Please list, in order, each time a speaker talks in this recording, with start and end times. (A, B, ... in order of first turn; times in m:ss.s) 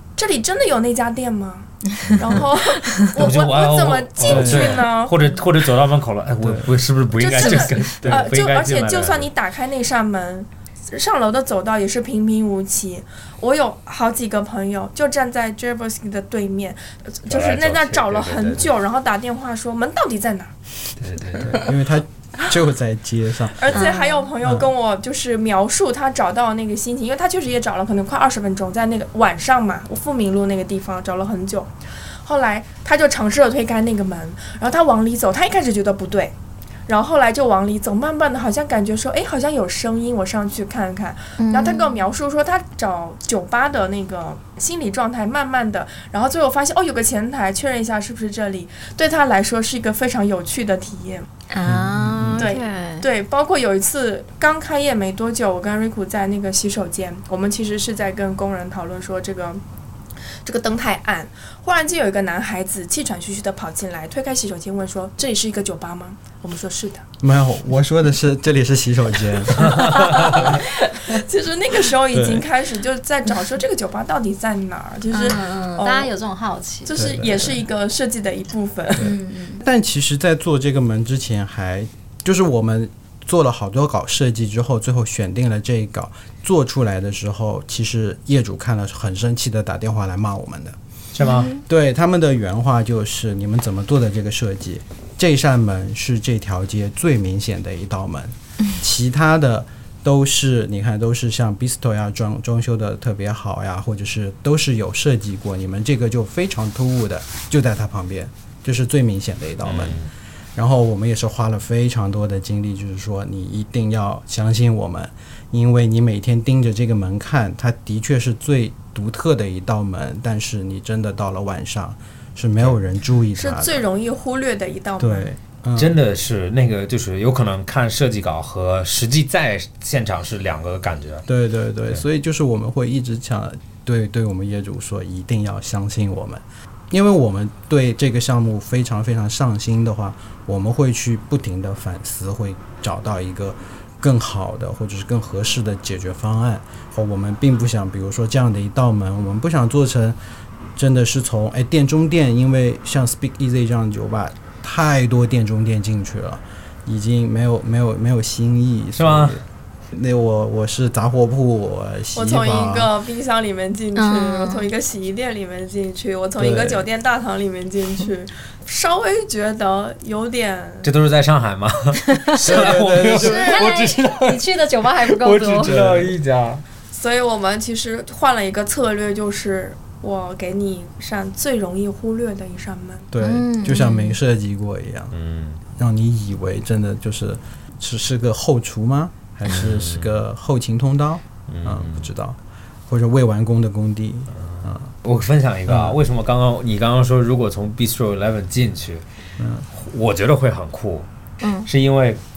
0:00.2-0:05.4 A
0:02.1-0:02.5 B
0:03.2-0:09.3 B
0:04.2-0:04.8 C
0:06.4-0:06.7 C
0:07.2-0:20.6 A
0:07.4-0:07.8 D
0:08.0-0:08.3 C
0:17.3-0:18.7 B
0:21.0-0:21.7 B
0:21.4-0:23.8 C
0:23.6-0:31.7 A
0:23.7-0:24.3 D
0:24.4-0:24.7 C
0:32.2-0:36.3 A
0:36.9-0:51.3 A
0:41.4-0:42.0 D
0:51.5-0:53.0 D
0:51.6-0:52.4 C
0:52.4-0:59.6 A
1:00.4-1:07.0 A
1:07.2-1:10.6 C
1:09.6-1:10.4 B
1:09.6-1:16.1 A
1:12.1-1:12.4 C
1:15.1-1:17.2 D
1:16.8-1:19.2 A
1:16.9-1:17.6 C
1:19.0-1:30.8 C
1:19.0-1:19.6 D
1:31.1-1:31.5 B
1:31.2-1:31.6 D
1:31.6-1:50.0 C
1:49.6-1:50.1 B
1:50.5-2:03.8 C
2:03.4-2:05.3 A
2:05.0-2:06.0 C
2:05.8-2:11.2 B
2:11.3-2:30.2 C
2:30.8-2:42.9 C
2:39.0-2:39.4 B
2:42.1-2:50.9 A
2:43.9-2:44.7 D
2:46.4-2:46.9 C
2:50.8-2:56.6 B
2:52.1-2:52.4 D
2:52.4-2:53.6 C
2:53.1-2:55.7 D
2:53.2-2:53.6 A
2:55.6-2:56.2 C
2:56.9-3:03.1 A
3:03.1-3:05.1 C
3:03.2-3:04.2 D
3:05.1-3:05.6 B
3:05.8-3:14.9 C
3:09.4-3:10.2 B
3:11.5-3:12.1 B
3:14.3-3:19.0 B
3:15.7-3:16.0 C
3:19.4-3:19.7 C
3:19.7-3:21.1 B
3:21.4-3:21.7 D
3:21.6-3:22.2 B